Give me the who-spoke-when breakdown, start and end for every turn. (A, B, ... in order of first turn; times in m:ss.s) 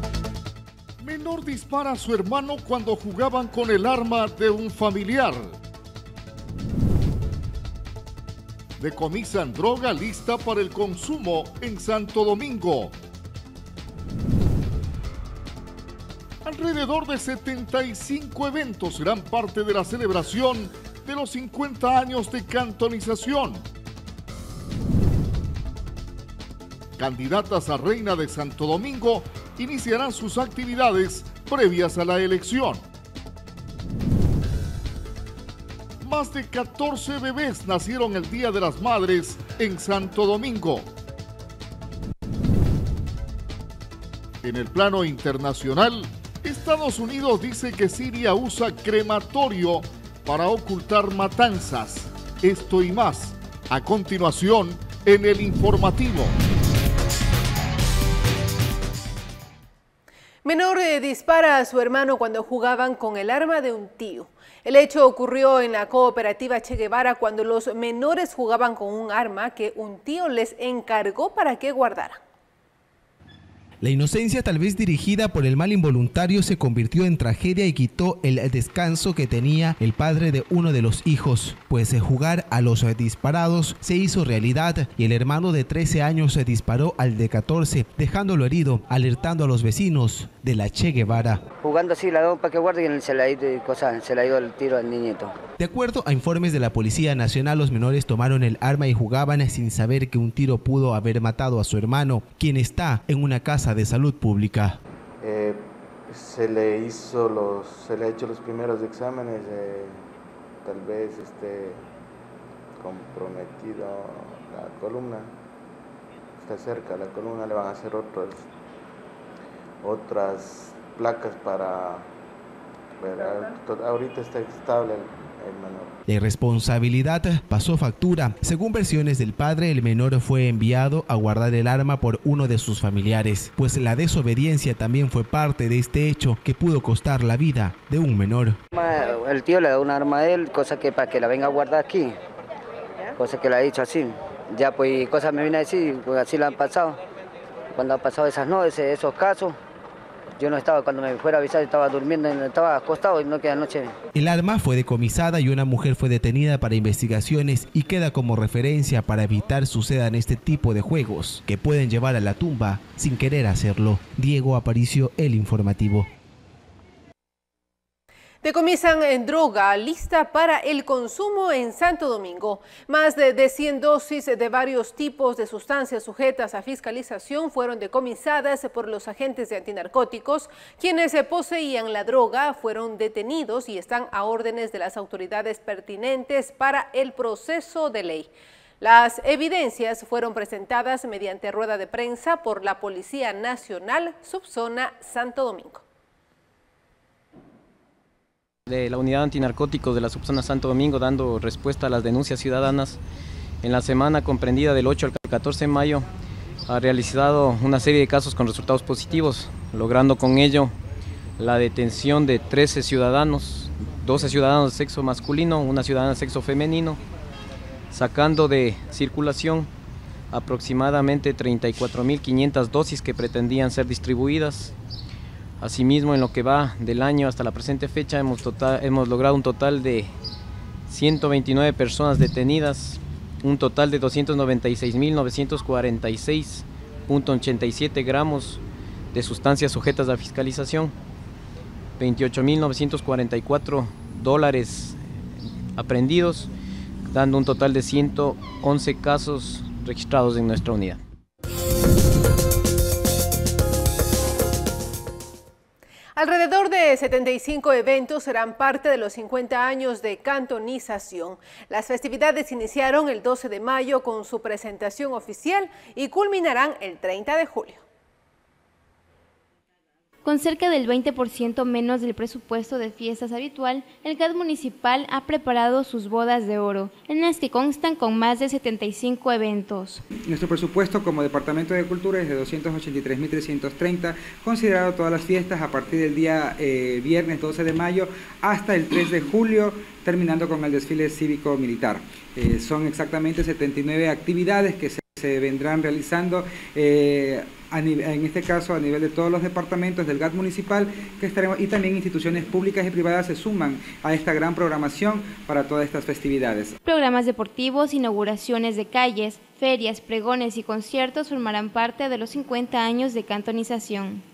0:01.0-0:05.6 A
0:08.8-0:13.0 A
0:16.4-0:23.6 A
0:27.0-0:32.8 A
0:36.0-0:40.9 A
0:44.4-0:56.4 A
1:00.4-1:12.2 B
1:13.8-1:31.4 C
1:31.6-1:35.3 D
1:35.6-1:44.8 C
1:45.2-1:50.0 E
1:50.6-1:51.8 E
1:52.8-1:55.4 E
1:56.4-1:58.5 E
1:59.8-2:02.1 E
2:03.0-2:06.0 E
2:06.1-2:18.6 C
2:18.7-2:22.2 D
2:23.2-2:27.0 D
2:27.8-2:29.6 D
2:30.4-2:33.9 D
2:34.1-2:46.1 C
2:48.4-3:08.3 B
3:08.8-3:15.8 B
3:18.7-3:23.0 F
3:23.6-3:26.1 F
3:26.7-3:30.8 F
3:31.4-3:37.0 F
3:37.9-3:39.7 F
3:40.3-3:44.7 F
3:45.6-3:50.1 F
3:50.9-3:58.6 F
3:59.1-4:01.0 F
4:02.0-4:06.5 F
4:07.1-4:11.0 F
4:16.2-4:27.8 B
4:30.2-4:40.0 G
4:40.3-5:06.8 H
5:06.8-5:14.2 G